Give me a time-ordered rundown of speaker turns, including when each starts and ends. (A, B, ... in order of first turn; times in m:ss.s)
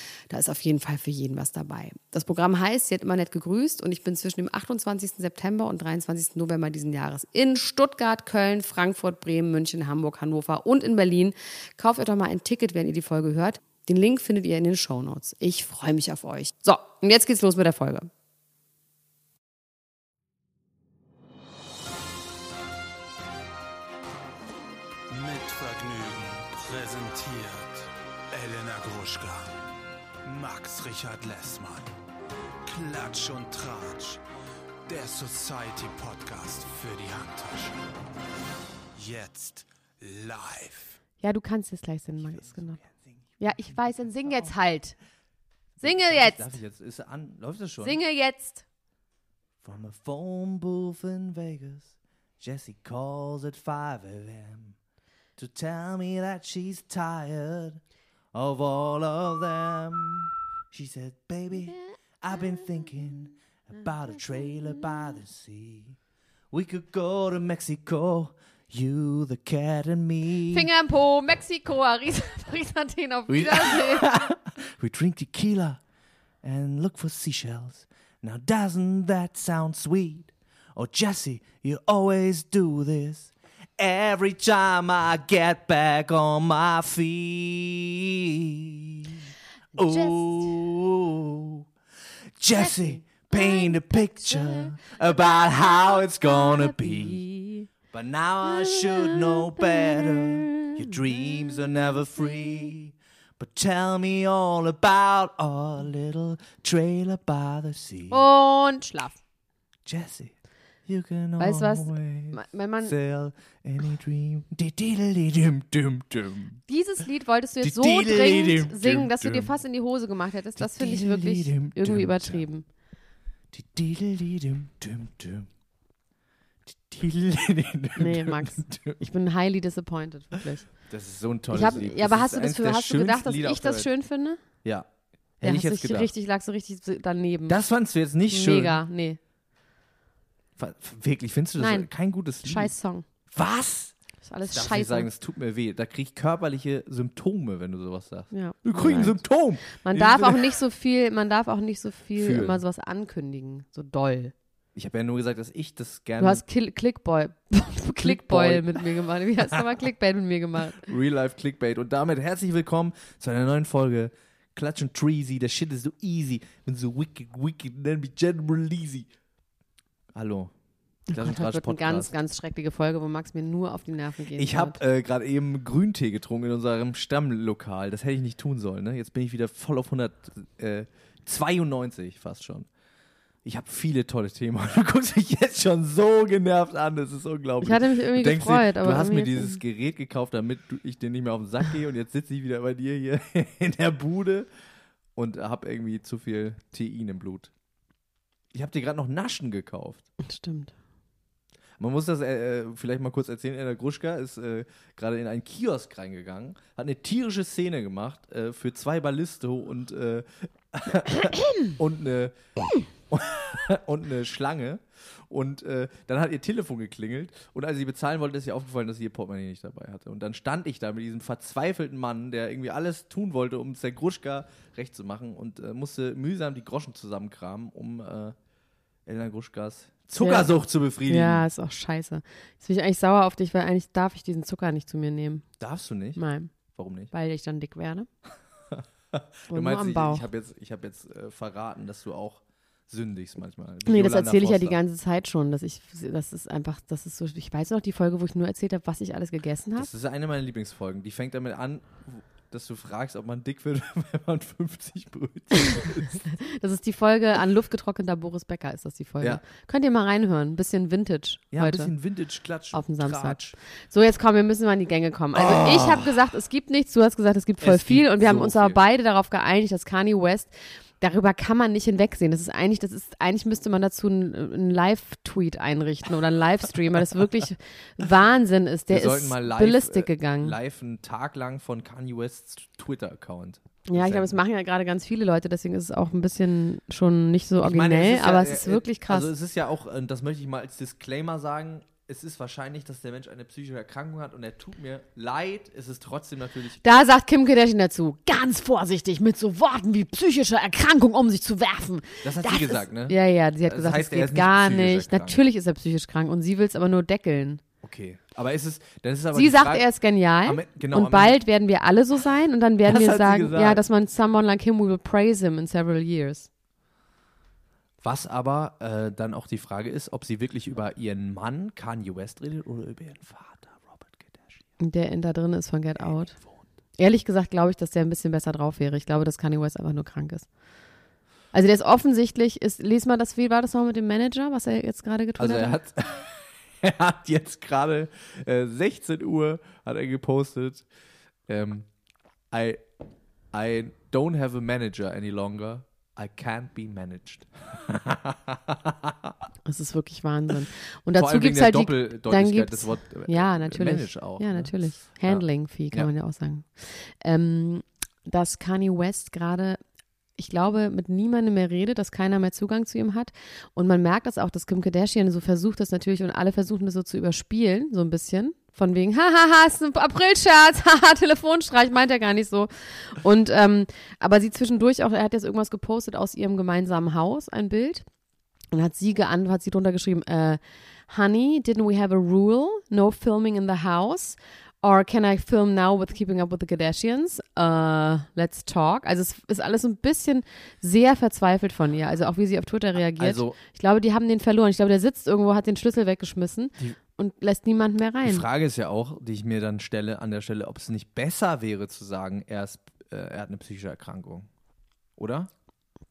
0:00.3-0:18.1 A
0:25.1-0:29.6 B
0:30.2-0:31.9 B
0:32.6-0:34.2 B
0:34.9-0:37.8 B
0:39.0-0:41.0 B
0:41.2-0:42.8 A
0:43.4-0:45.0 A
0:45.8-0:48.0 C
0:45.8-0:46.6 A
0:47.8-0:48.6 A
0:49.6-0:54.8 C
0:55.4-0:57.8 C
0:58.3-1:06.0 C
1:06.5-1:10.7 C
1:10.5-1:14.1 A
1:13.3-1:15.8 C
1:16.4-1:29.2 C
1:29.8-1:31.6 C
1:29.8-1:30.4 A
1:32.4-1:37.2 C
1:32.6-1:34.8 A
1:35.4-1:37.7 A
1:37.9-1:48.2 C
1:38.4-1:41.0 A
1:48.1-1:49.2 A
1:49.9-1:50.3 C
1:50.9-1:56.6 C
1:51.4-1:53.0 A
1:56.7-2:02.7 A
1:57.6-1:59.5 C
2:00.6-2:02.4 C
2:03.5-2:05.5 C
2:06.7-2:09.0 C
2:08.0-2:10.7 A
2:10.9-2:13.9 C
2:11.5-2:14.4 A
2:15.4-2:16.1 C
2:15.4-2:17.6 A
2:17.5-2:18.8 C
2:18.3-2:19.2 A
2:20.6-2:22.7 C
2:21.6-2:21.9 A
2:22.4-2:23.1 A
2:23.3-2:23.9 C
2:24.2-2:25.1 A
2:24.5-2:30.6 C
2:28.3-2:34.3 A
2:32.2-2:32.6 C
2:34.8-2:36.4 C
2:36.2-2:40.9 A
2:38.0-2:38.9 C
2:39.4-2:39.6 C
2:40.7-2:49.1 C
2:50.1-2:50.5 C
2:51.1-2:54.8 A
2:51.1-2:52.1 C
2:54.4-3:02.7 C
3:03.4-3:14.5 C
3:07.6-3:09.6 A
3:15.2-3:17.5 C
3:18.5-3:20.1 C
3:20.2-3:20.7 A
3:21.8-3:48.4 C
3:49.1-3:51.5 C
3:50.2-3:50.5 A
3:51.1-3:55.5 A
3:55.6-3:56.2 C
3:56.2-3:56.5 A
3:56.7-3:57.1 C
3:57.1-3:58.1 A
3:58.7-4:04.8 C
3:59.5-4:00.3 A
4:03.9-4:09.9 A
4:09.8-4:16.2 C
4:16.2-4:21.9 A
4:21.5-4:23.6 C
4:22.7-4:40.6 A
4:25.4-4:26.1 C
4:27.6-4:28.8 C
4:38.9-4:44.4 C
4:43.9-4:49.3 A
4:47.6-4:56.8 C
4:56.8-5:07.6 A
5:02.2-5:05.4 C
5:07.8-5:09.9 C
5:09.3-5:16.5 A
5:10.4-5:11.4 C
5:12.9-5:13.8 C
5:18.0-5:24.6 C
5:24.8-5:26.4 A
5:26.0-5:26.6 C
5:27.0-5:30.5 A
5:31.5-5:35.8 A
5:35.4-5:40.8 C
5:41.5-5:41.9 C
5:42.5-5:42.8 C
5:43.5-5:49.3 C
5:49.7-5:59.8 A
5:51.2-5:56.1 C
6:00.4-6:18.0 A
6:18.7-6:38.5 A
6:33.2-6:33.6 C
6:38.2-6:44.5 C
6:45.2-6:45.5 C